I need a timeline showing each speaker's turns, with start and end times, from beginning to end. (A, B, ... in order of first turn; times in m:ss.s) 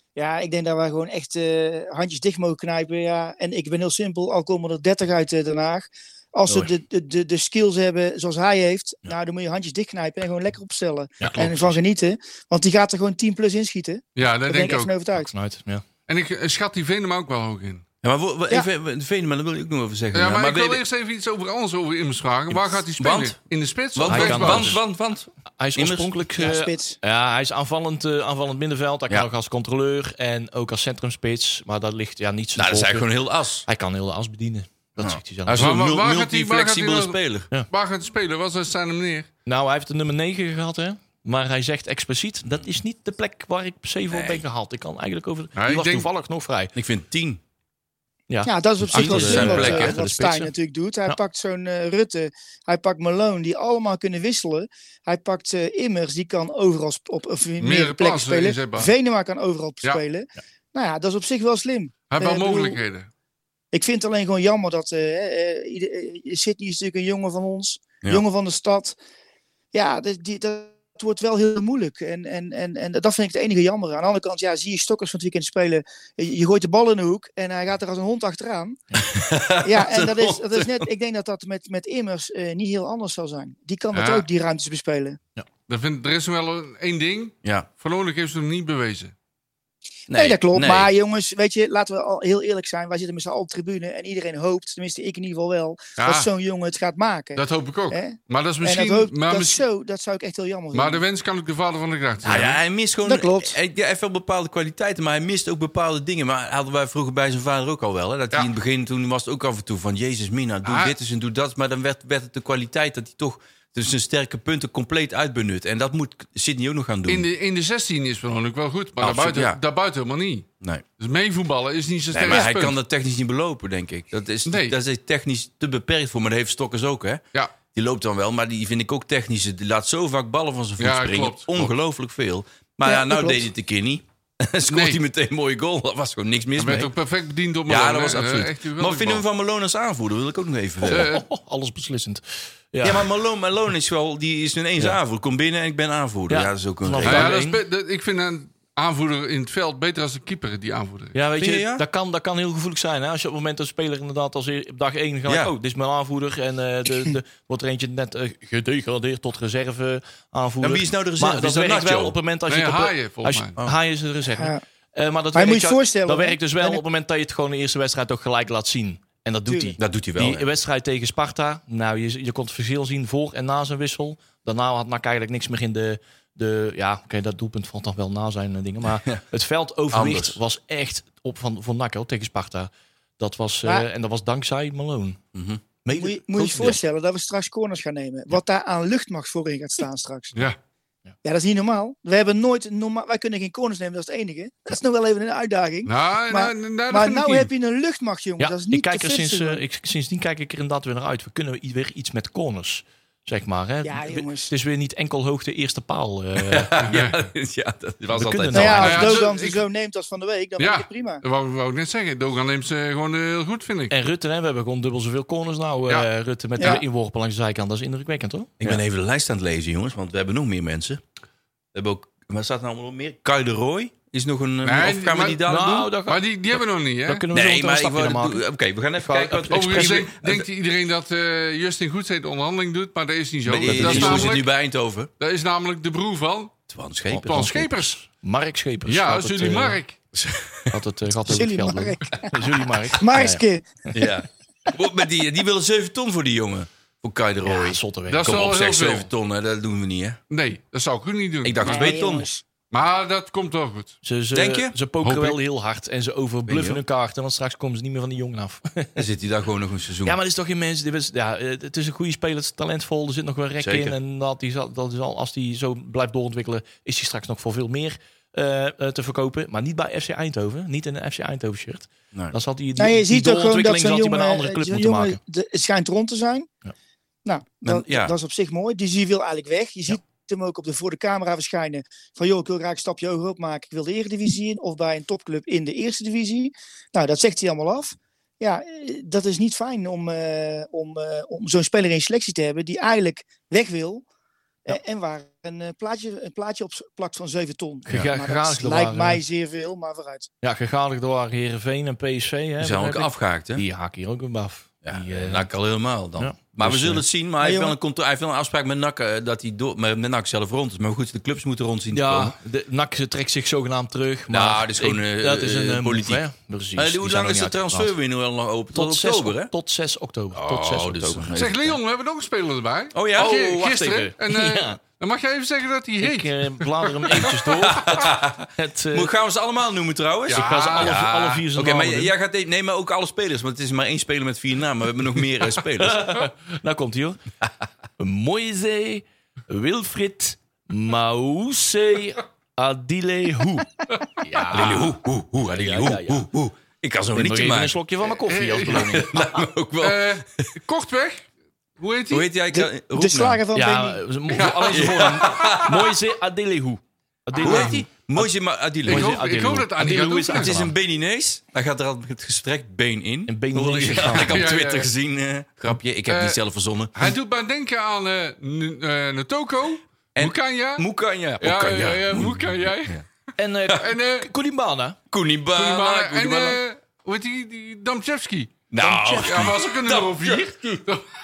0:00.2-0:15.3 A
0:11.2-0:11.5 B
0:11.3-0:11.8 C
0:14.2-0:14.9 C
0:15.2-0:15.8 B
0:16.1-0:17.8 C
0:18.0-0:20.8 D
0:20.1-0:24.8 C
0:22.5-0:23.4 D
0:23.9-0:26.1 D
0:24.1-0:24.8 B
0:25.6-0:33.1 B
0:26.4-0:27.0 A
0:32.6-0:33.6 D
0:33.6-0:35.7 B
0:35.0-0:37.5 D
0:35.5-0:39.3 C
0:39.4-0:46.7 B
0:44.1-0:44.4 D
0:45.6-0:46.1 C
0:46.7-0:47.4 D
0:48.3-0:50.5 B
0:48.4-1:02.8 A
0:48.8-0:50.1 D
0:57.6-0:58.9 C
1:02.1-1:03.1 C
1:03.7-1:09.0 A
1:09.7-1:18.8 A
1:19.1-1:20.9 D
1:19.6-1:25.2 A
1:23.9-1:24.3 C
1:25.7-1:29.1 C
1:30.1-1:30.9 D
1:30.1-1:41.0 A
1:36.0-1:36.3 C
1:37.4-1:39.6 C
1:40.7-1:42.5 C
1:42.2-1:57.3 D
1:43.0-1:43.6 A
1:50.6-1:50.9 C
1:57.1-2:00.5 C
1:59.0-1:59.6 D
2:01.0-2:02.8 C
2:02.1-2:07.2 D
2:04.5-2:04.8 C
2:07.7-2:16.9 D
2:10.8-2:11.7 C
2:12.8-2:13.4 A
2:14.7-2:15.0 C
2:16.6-2:19.2 C
2:17.7-2:21.1 D
2:20.8-2:22.2 B
2:20.9-2:21.2 C
2:22.7-2:23.1 B
2:22.8-2:27.3 D
2:26.3-2:27.6 B
2:27.0-2:31.1 C
2:31.1-3:05.2 B
2:31.4-2:31.8 D
2:35.3-2:35.5 D
2:40.6-2:42.2 D
2:42.5-2:43.5 C
2:45.3-2:46.8 A
2:49.5-2:49.7 A
2:49.8-2:50.5 D
2:58.9-2:59.2 D
2:59.9-3:00.4 D
3:05.3-3:05.6 D
3:05.8-3:06.8 B
3:05.9-3:10.5 A
3:11.2-3:19.6 A
3:15.8-3:17.5 C
3:18.4-3:26.8 B
3:23.8-3:24.5 A
3:26.4-3:29.1 D
3:26.8-3:27.2 C
3:28.1-3:29.1 B
3:28.5-3:31.2 A
3:28.8-3:29.6 C
3:30.6-3:33.9 C
3:33.9-3:38.8 B
3:36.6-3:36.8 A
3:38.6-3:41.0 D
3:41.7-3:45.9 D
3:44.6-3:45.4 C
3:45.4-3:48.4 B
3:46.1-3:47.2 C
3:47.3-3:50.4 D
3:49.0-3:50.3 B
3:49.5-3:54.5 C
3:53.4-3:55.1 D
3:53.6-3:54.3 B
3:55.2-3:56.5 C
3:56.7-3:57.4 D
3:57.1-3:59.8 B
3:57.2-3:58.0 C
3:58.9-4:00.0 C
4:00.1-4:00.7 D
4:00.7-4:03.4 B
4:01.3-4:02.3 A
4:03.0-4:03.7 A
4:03.9-4:10.2 D
4:07.4-4:08.4 B
4:08.1-4:09.1 C
4:10.3-4:12.0 C
4:11.4-4:12.3 D
4:11.6-4:12.4 A
4:12.7-4:13.9 C
4:14.0-4:19.0 B
4:14.3-4:14.7 D
4:15.0-4:15.4 C
4:16.4-4:16.8 D
4:19.0-4:20.2 D
4:20.0-4:35.2 B
4:23.6-4:24.0 D
4:32.8-4:36.5 A
4:37.2-4:54.0 A
4:37.6-4:38.1 D
4:54.6-5:00.3 A
4:57.9-4:59.2 B
5:00.4-5:05.5 B
5:02.6-5:03.6 D
5:04.8-5:12.3 D
5:06.2-5:07.0 B
5:07.4-5:07.7 A
5:11.9-5:17.9 B
5:14.3-5:16.2 D
5:16.8-5:19.5 D
5:18.7-5:21.4 B
5:20.3-5:21.8 D
5:21.4-5:27.6 C
5:22.9-5:23.9 D
5:23.6-5:24.8 B
5:26.0-5:29.1 B
5:27.5-5:36.1 D
5:30.3-5:31.0 C
5:30.3-5:32.1 B
5:35.8-5:37.2 B
5:38.0-5:46.3 B
5:44.5-5:47.8 D
5:47.1-5:49.2 B
5:48.3-5:49.0 C
5:48.5-5:50.5 D
5:49.8-5:51.3 C
5:51.8-5:52.3 C
5:52.1-5:53.4 D
5:52.5-5:54.0 A
5:53.5-5:58.3 B
5:54.3-5:55.6 C
5:54.7-5:55.9 D
5:57.4-5:57.8 C
5:57.4-5:59.2 D
5:58.8-6:00.7 B
5:58.9-6:00.5 C
6:00.3-6:07.1 D
6:03.3-6:04.4 B
6:04.0-6:04.9 C
6:06.1-6:06.4 C
6:06.9-6:10.8 C
6:10.1-6:13.0 D
6:11.4-6:12.9 C
6:13.4-6:15.0 B
6:13.8-6:14.3 C
6:15.1-6:16.6 D
6:15.5-6:18.6 C
6:18.7-6:20.8 D
6:18.8-6:19.6 B
6:19.2-6:21.0 C